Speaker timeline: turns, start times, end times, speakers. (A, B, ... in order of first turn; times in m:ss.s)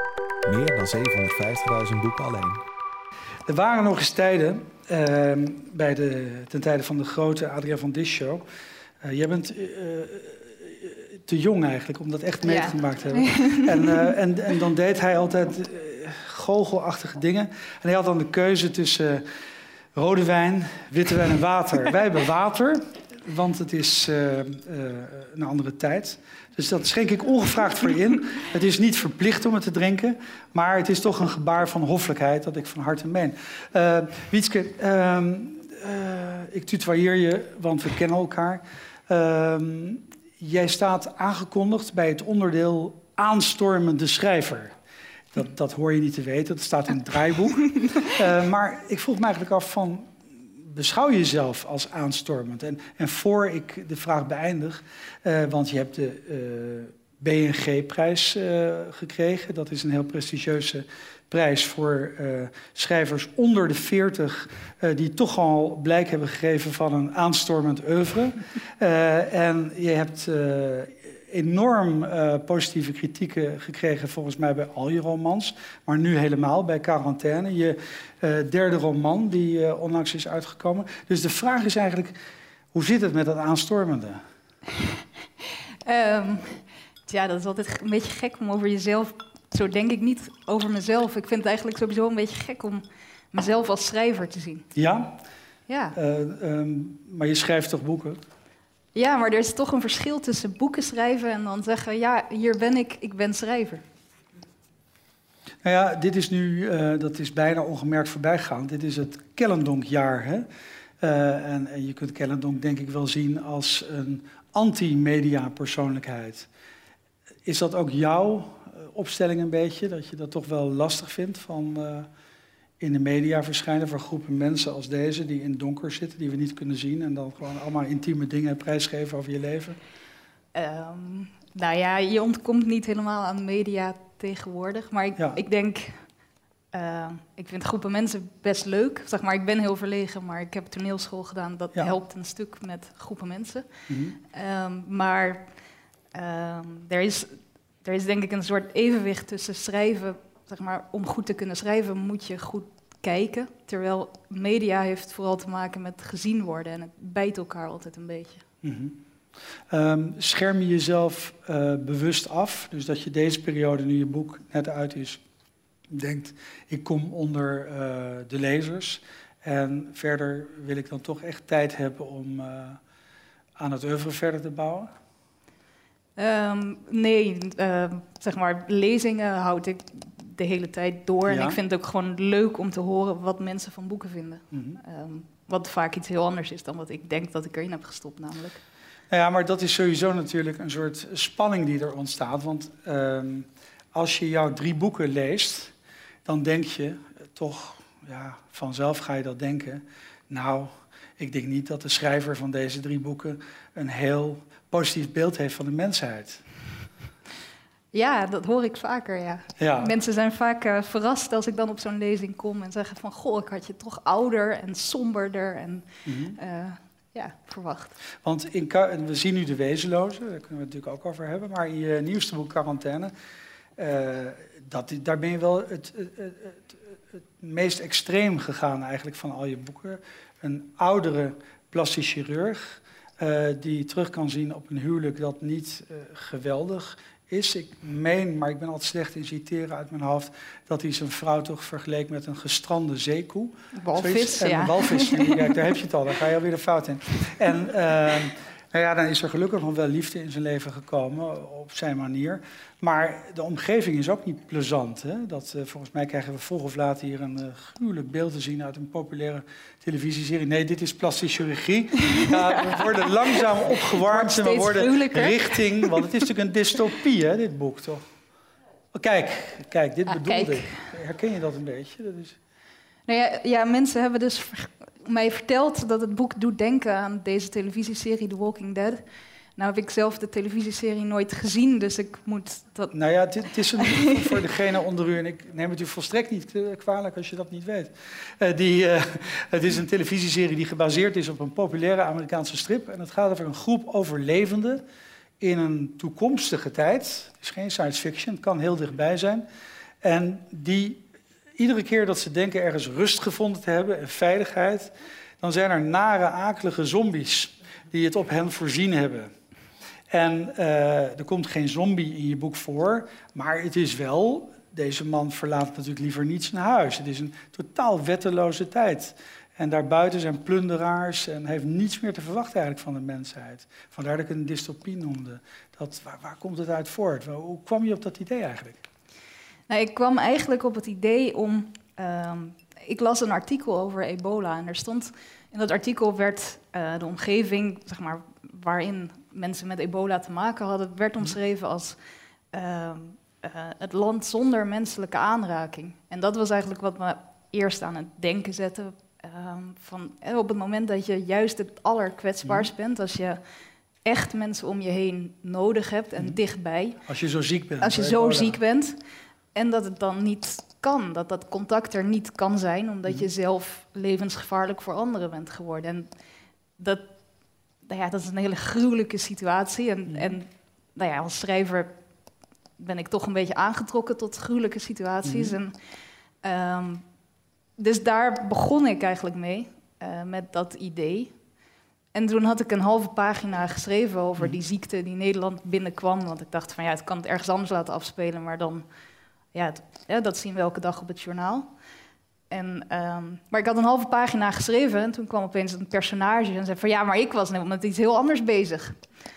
0:00.4-0:02.6 A
0:03.5-0:08.4 B
0:09.0-0:19.3 B
0:12.4-0:14.1 C
0:19.9-0:44.7 B
0:45.3-1:22.1 B
1:22.7-1:24.2 B
1:25.8-1:34.7 C
1:34.7-1:35.2 B
1:35.7-1:36.0 C
1:35.9-1:38.2 B
1:38.9-1:43.8 C
1:45.6-1:50.4 B
1:51.0-1:56.5 B
1:57.4-2:02.1 B
2:02.8-2:09.8 B
2:10.5-2:16.0 C
2:16.7-2:23.7 C
2:23.9-2:24.2 B
2:24.2-2:25.5 C
2:26.1-2:38.4 C
2:38.6-2:39.0 B
2:39.7-2:45.2 B
2:45.9-2:52.8 B
2:53.6-2:54.9 B
2:56.2-3:08.6 C
3:01.2-3:01.6 B
3:04.5-3:04.8 B
3:09.1-3:15.7 B
3:16.2-3:26.4 B
3:27.9-3:38.0 C
3:29.6-3:29.9 B
3:36.0-3:36.4 B
3:38.2-3:43.1 B
3:43.8-4:28.0 B
4:03.8-4:05.6 C
4:22.1-4:26.1 C
4:28.9-4:32.4 B
4:30.1-4:30.8 C
4:33.1-4:39.0 C
4:39.6-4:42.9 C
4:42.9-4:54.8 B
4:43.8-4:44.4 C
4:55.4-4:59.4 B
5:00.0-5:01.0 B
5:01.6-5:09.3 B
5:10.1-5:28.8 B
5:29.7-5:42.0 C
5:42.5-5:53.4 C
5:52.4-5:52.7 B
5:54.0-5:57.0 C
5:57.0-5:58.6 B
5:57.8-5:59.0 C
5:59.5-6:06.1 C
6:06.8-6:07.1 C
6:07.8-6:11.9 C
6:10.1-6:10.4 B
6:12.8-6:15.7 C
6:15.2-6:15.6 B
6:16.4-6:17.0 C
6:17.8-6:21.3 C
6:22.1-6:28.8 C
6:29.5-6:31.7 C
6:32.5-6:39.0 C